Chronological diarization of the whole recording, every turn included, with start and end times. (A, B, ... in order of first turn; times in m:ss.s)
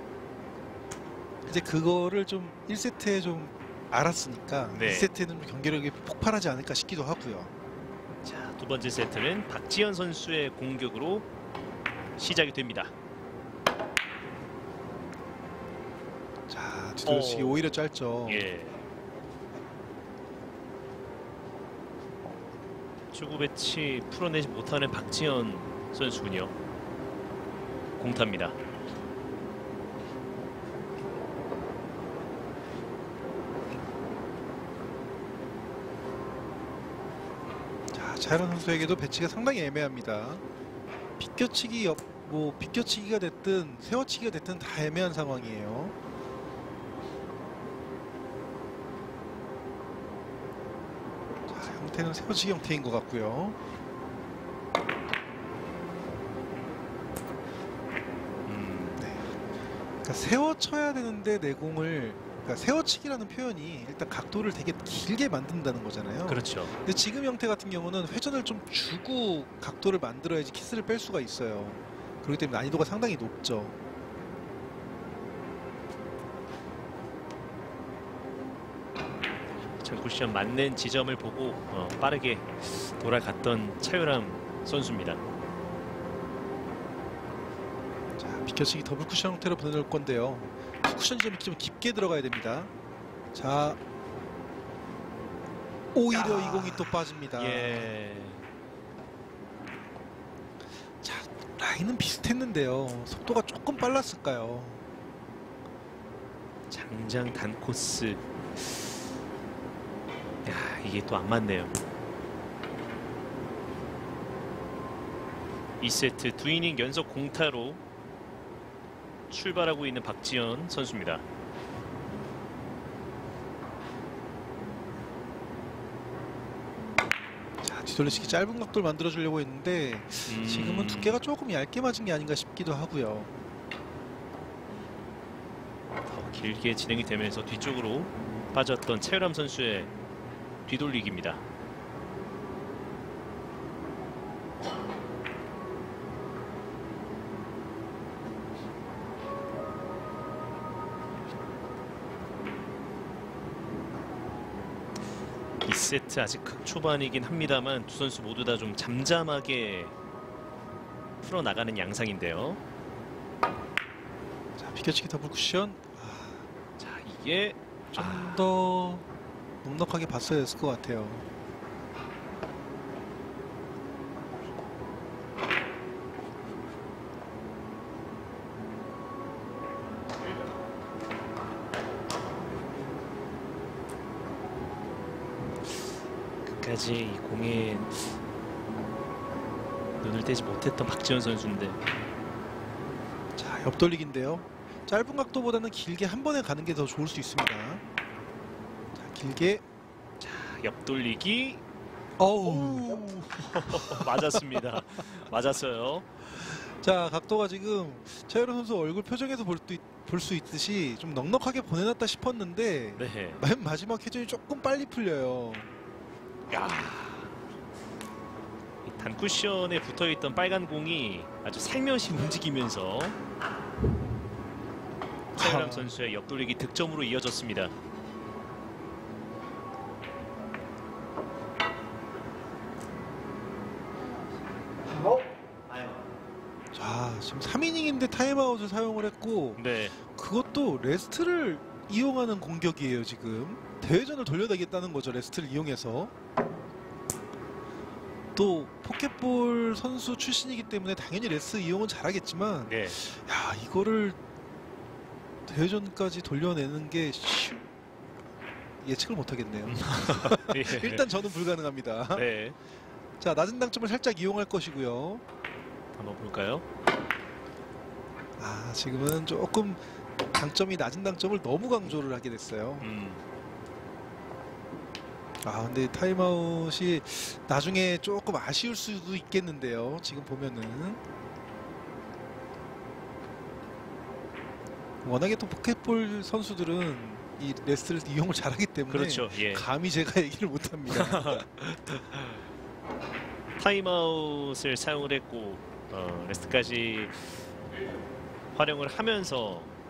0:01.4-0:07.5 A
0:04.7-0:05.1 B
0:08.2-0:11.2 B
0:12.2-0:12.9 B
0:16.5-0:18.5 A
0:17.0-0:17.6 B
0:18.3-0:18.8 B
0:23.1-0:26.5 B
0:28.0-0:28.6 B
0:37.9-0:40.4 A
0:41.2-0:45.9 A
0:51.5-0:53.6 A
0:58.4-0:59.0 B
0:59.0-0:59.2 A
1:00.0-1:13.8 A
1:06.3-1:06.7 B
1:19.8-1:25.2 B
1:28.2-1:32.7 A
1:33.3-1:33.8 A
1:35.9-1:38.0 A
1:36.1-1:38.4 B
1:41.0-1:44.8 A
1:46.7-1:48.8 B
1:50.4-1:51.8 B
1:55.8-1:57.8 B
1:59.3-2:01.2 B
2:07.6-2:13.3 A
2:10.2-2:11.2 B
2:16.0-2:19.9 B
2:20.6-2:21.4 B
2:35.6-2:39.9 B
2:41.2-2:42.6 B
2:44.6-2:46.4 A
2:46.8-2:48.5 B
2:47.9-2:49.0 A
2:49.6-2:51.3 A
3:06.4-3:08.2 B
3:10.0-3:11.8 B
3:13.4-3:17.8 A
3:19.0-3:19.6 A
3:20.2-3:21.6 B
3:22.2-3:25.0 A
3:22.4-3:26.0 B
3:26.3-3:35.7 A
3:33.0-3:33.4 B
3:36.5-3:37.4 B
3:38.8-3:43.2 B
3:45.4-3:45.9 A
3:45.4-3:47.7 B
3:56.7-4:06.1 A
3:59.6-4:00.0 B
4:08.4-4:14.2 A
4:12.6-4:13.0 B
4:15.5-4:17.6 A
4:18.8-4:22.2 A
4:19.7-4:21.1 B
4:22.1-4:22.6 B
4:23.2-4:25.2 A
4:25.9-4:26.6 B
4:28.4-4:32.9 A
4:32.8-4:33.2 B
4:35.4-4:41.0 A
4:45.0-4:51.4 A
4:48.9-4:49.6 B
4:50.9-4:52.4 B
4:53.6-4:57.5 B
4:58.5-4:59.7 B